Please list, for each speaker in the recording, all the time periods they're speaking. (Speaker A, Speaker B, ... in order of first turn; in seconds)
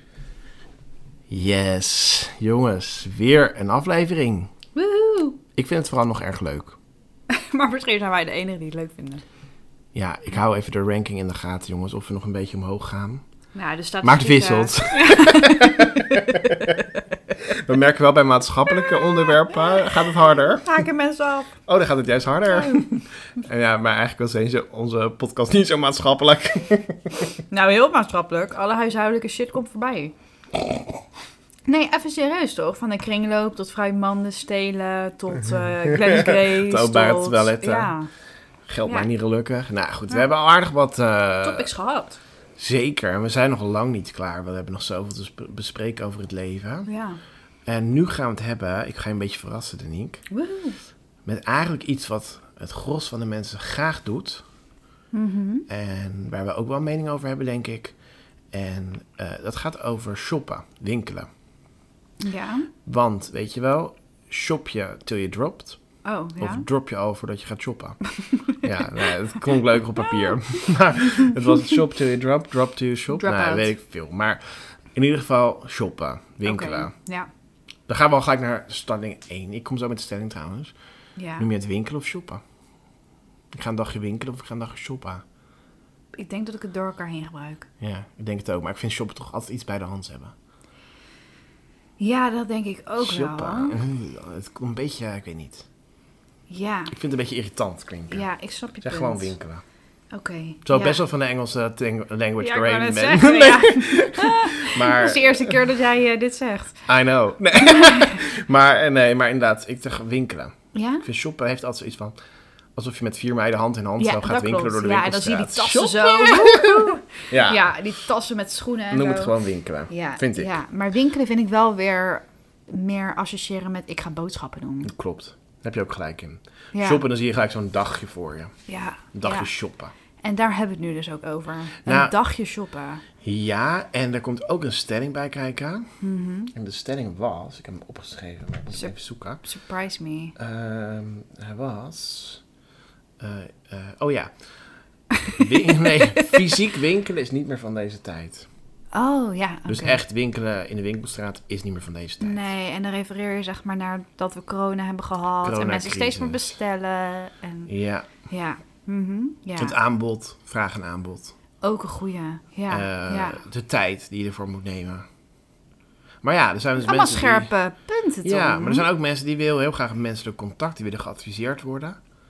Speaker A: 1.3-4.5, 5.5-6.8, 9.9-13.2, 14.0-16.8, 17.4-20.8, 21.6-27.3, 36.0-37.9, 38.6-41.7, 42.6-46.9, 47.6-50.2, 51.2-54.4, 55.7-57.9, 58.5-61.3, 62.8-65.8, 66.4-68.0, 68.5-74.4, 74.9-76.9, 77.9-80.7, 81.4-82.4, 83.5-85.2, 87.8-90.3, 93.0-95.7, 96.9-98.3, 98.8-99.6, 100.6-105.6, 106.9-112.2, 112.7-117.8, 118.9-120.5, 124.8-128.5, 129.1-129.9, 131.8-132.1, 133.2-135.9, 136.5-139.4, 140.3-142.4, 143.2-144.3, 145.3-148.5, 149.7-152.5, 155.4-156.6, 157.7-158.1, 159.6-161.3, 162.7-165.0, 166.2-167.5, 168.2-172.0
Speaker B: 4.7-5.4, 7.3-9.2, 13.5-16.8, 19.2-19.8, 20.6-21.5, 22.5-23.0, 27.5-30.1, 31.7-38.1, 41.4-42.2, 46.9-47.2, 50.3-50.8, 55.1-55.7, 62.2-62.7, 66.0-66.7, 73.1-73.7, 76.4-77.3, 81.2-81.5, 86.2-87.7, 92.0-93.8, 96.5-96.9, 98.1-99.3, 100.1-101.0, 102.4-106.9, 107.6-108.1, 110.7-111.0, 114.0-119.3, 119.9-124.9, 126.7-127.0, 128.7-129.5, 130.2-133.0, 136.0-136.5, 138.7-140.3, 145.4-146.4, 148.9-150.0, 152.2-157.7, 158.3-159.8, 161.6-163.4, 166.8-168.9